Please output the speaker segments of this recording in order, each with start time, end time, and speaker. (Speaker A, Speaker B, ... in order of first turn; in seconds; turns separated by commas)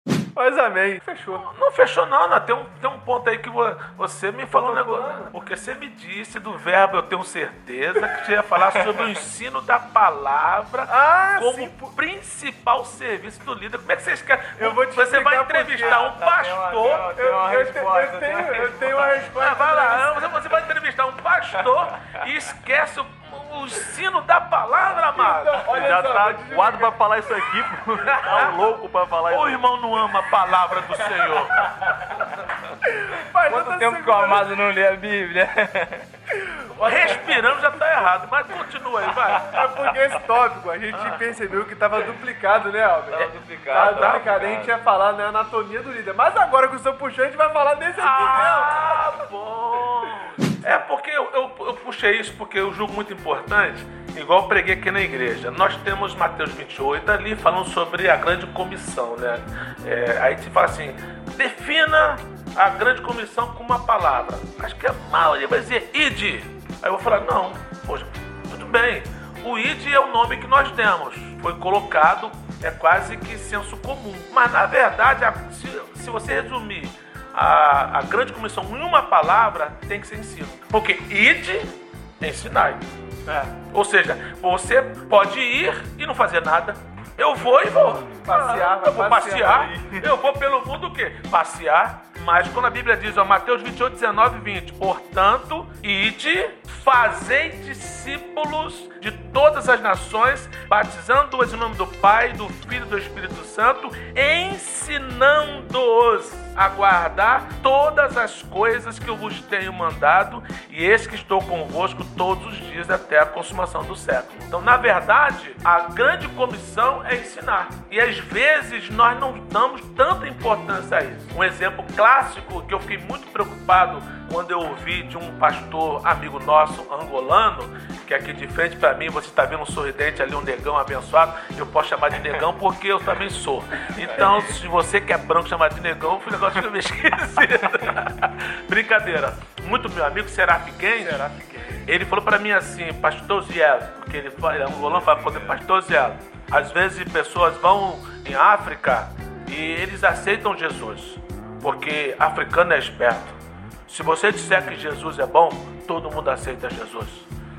Speaker A: 0.4-1.5, Speaker B: 1.4-17.1, Speaker A: 4.5-5.3, Speaker C: 8.7-9.1, Speaker A: 10.9-11.9, Speaker A: 14.6-16.0, Speaker C: 15.8-19.3, Speaker A: 17.2-20.3, Speaker B: 19.3-25.7, Speaker A: 25.1-26.9, Speaker D: 25.7-29.7, Speaker B: 28.1-28.6, Speaker B: 29.3-31.7, Speaker C: 31.6-32.2, Speaker A: 32.9-34.5, Speaker C: 33.5-36.1, Speaker A: 36.7-37.2, Speaker B: 36.8-39.6, Speaker A: 39.5-49.0, Speaker C: 43.1-44.8, Speaker B: 43.7-44.3, Speaker B: 48.0-82.8, Speaker A: 83.3-83.5, Speaker B: 83.7-141.2, Speaker A: 88.2-89.8, Speaker A: 141.0-141.9, Speaker B: 141.9-153.4, Speaker C: 145.2-145.6, Speaker B: 153.9-157.3